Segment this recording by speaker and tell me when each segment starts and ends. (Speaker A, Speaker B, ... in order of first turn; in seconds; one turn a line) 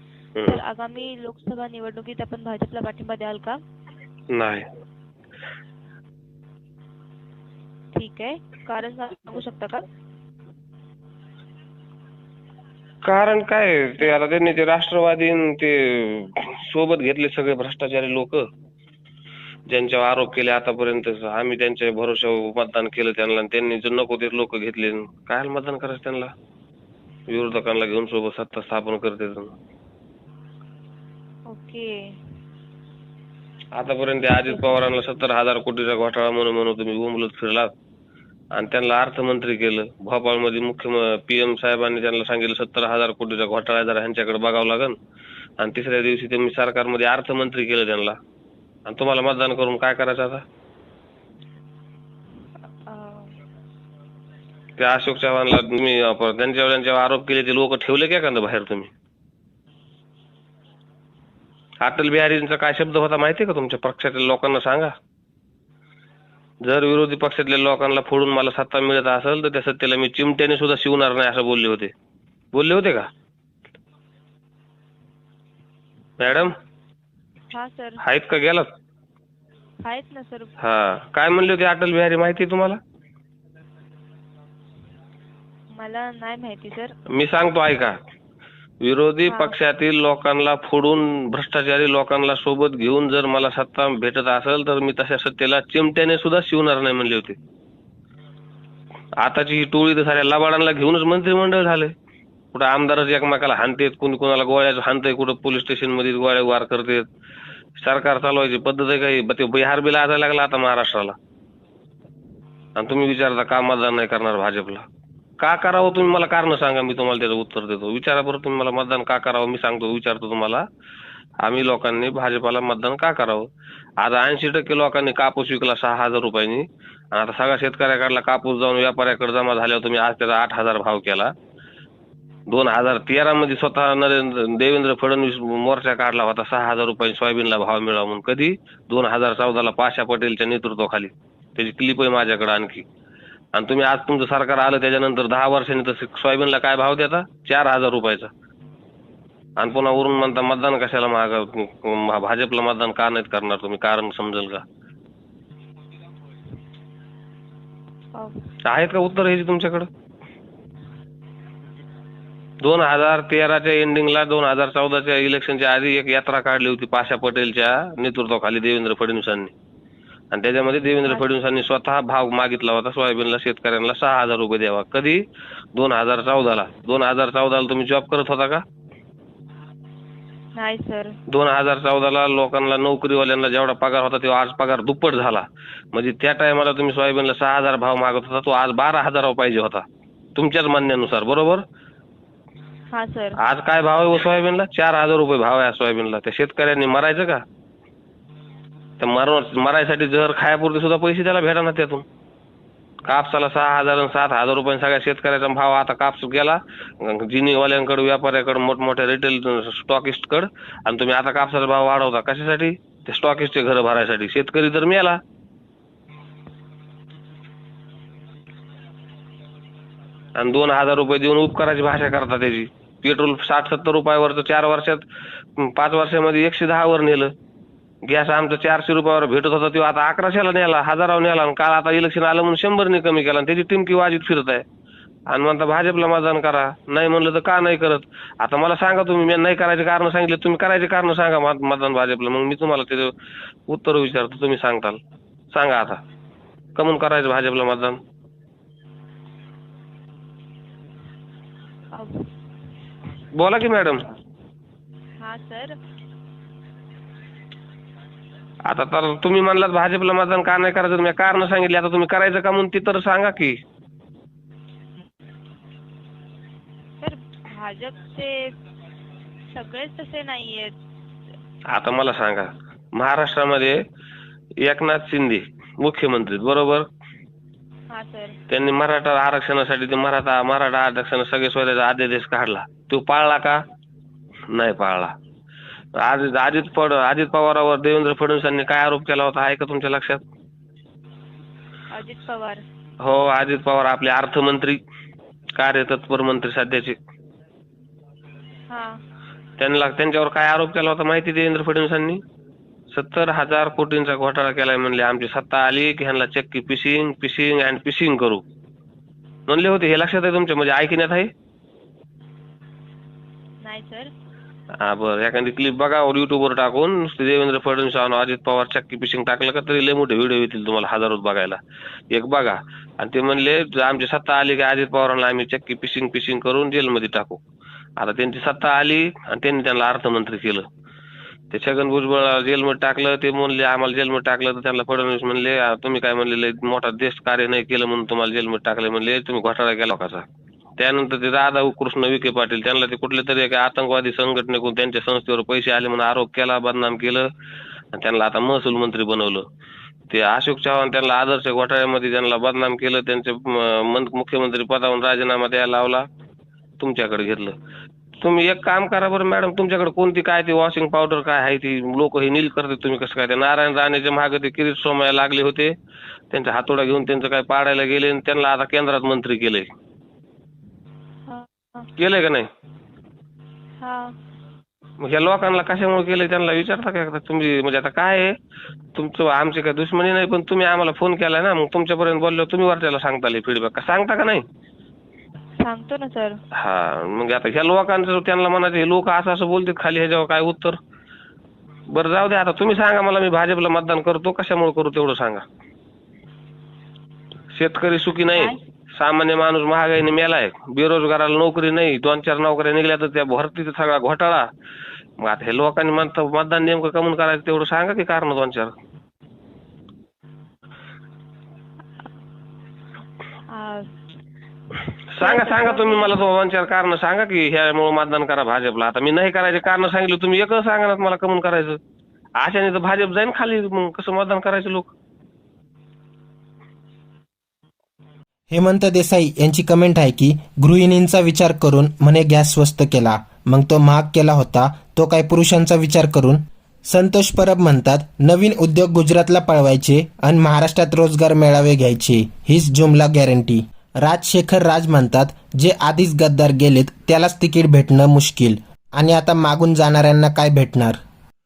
Speaker A: 0.5-3.6
Speaker B: 4.3-4.7
Speaker A: 7.9-9.9
Speaker B: 13.0-18.5
Speaker B: 19.7-26.3
Speaker B: 27.3-29.6
Speaker A: 31.5-32.2
Speaker B: 33.8-37.7
Speaker A: 34.3-34.7
Speaker B: 38.5-45.0
Speaker B: 45.6-48.2
Speaker B: 48.9-50.4
Speaker A: 52.9-53.4
Speaker B: 54.8-58.9
Speaker B: 61.8-64.9
Speaker B: 66.6-71.9
Speaker B: 72.5-73.1
Speaker B: 76.2-76.5
Speaker A: 77.5-78.0
Speaker B: 78.0-78.7
Speaker A: 79.8-80.5
Speaker B: 80.6-82.8
Speaker A: 85.7-86.9
Speaker B: 87.1-88.0
Speaker B: 88.8-97.4
Speaker A: 89.3-89.5
Speaker B: 99.2-101.9
Speaker B: 102.5-107.0
Speaker B: 107.8-111.2
Speaker B: 112.8-114.8
Speaker B: 115.4-120.6
Speaker B: 121.4-123.5
Speaker B: 124.0-131.3
Speaker B: 132.5-142.8
Speaker B: 143.5-148.3
Speaker B: 149.6-154.6
Speaker A: 158.2-158.5
Speaker B: 158.7-159.9
Speaker B: 162.6-169.5
Speaker B: 170.3-175.2
Speaker B: 175.8-178.6
Speaker A: 180.6-181.2
Speaker B: 181.3-189.8
Speaker B: 190.3-191.6
Speaker A: 192.9-193.4
Speaker B: 193.4-197.4
Speaker B: 199.0-202.0
Speaker B: 203.1-215.2
Speaker B: 220.4-225.0
Speaker B: 225.6-227.3
Speaker B: 228.1-234.6
Speaker B: 235.3-243.1
Speaker B: 243.7-245.0
Speaker B: 245.5-246.0
Speaker B: 246.8-248.0
Speaker A: 251.9-252.3
Speaker B: 253.3-254.1
Speaker A: 255.2-255.8
Speaker B: 258.6-263.6
Speaker A: 267.0-268.6
Speaker A: 269.5-270.7
Speaker B: 271.7-273.8
Speaker B: 274.6-276.9
Speaker A: 277.9-278.4
Speaker B: 278.5-283.6
Speaker B: 284.5-285.1
Speaker B: 286.0-290.2
Speaker A: 291.9-292.6
Speaker B: 293.0-294.8
Speaker B: 295.6-297.0
Speaker A: 298.7-299.0
Speaker B: 299.6-302.2
Speaker B: 302.9-308.4
Speaker B: 309.5-311.3
Speaker A: 313.6-314.1
Speaker B: 314.8-321.6
Speaker B: 322.1-327.4
Speaker B: 328.0-330.6
Speaker B: 331.5-340.2
Speaker B: 340.8-347.3
Speaker B: 347.9-349.4
Speaker B: 350.1-356.1
Speaker B: 356.8-357.5
Speaker B: 358.2-365.7
Speaker B: 366.3-369.7
Speaker A: 371.3-371.9
Speaker B: 372.0-372.5
Speaker A: 373.8-374.1
Speaker B: 375.0-378.3
Speaker B: 378.9-384.4
Speaker A: 385.6-386.4
Speaker B: 386.5-390.8
Speaker B: 391.9-395.4
Speaker B: 397.5-404.5
Speaker A: 398.3-398.6
Speaker B: 405.2-408.7
Speaker A: 413.5-413.9
Speaker B: 415.1-421.8
Speaker A: 415.2-416.2
Speaker B: 422.4-424.9
Speaker C: 428.5-451.0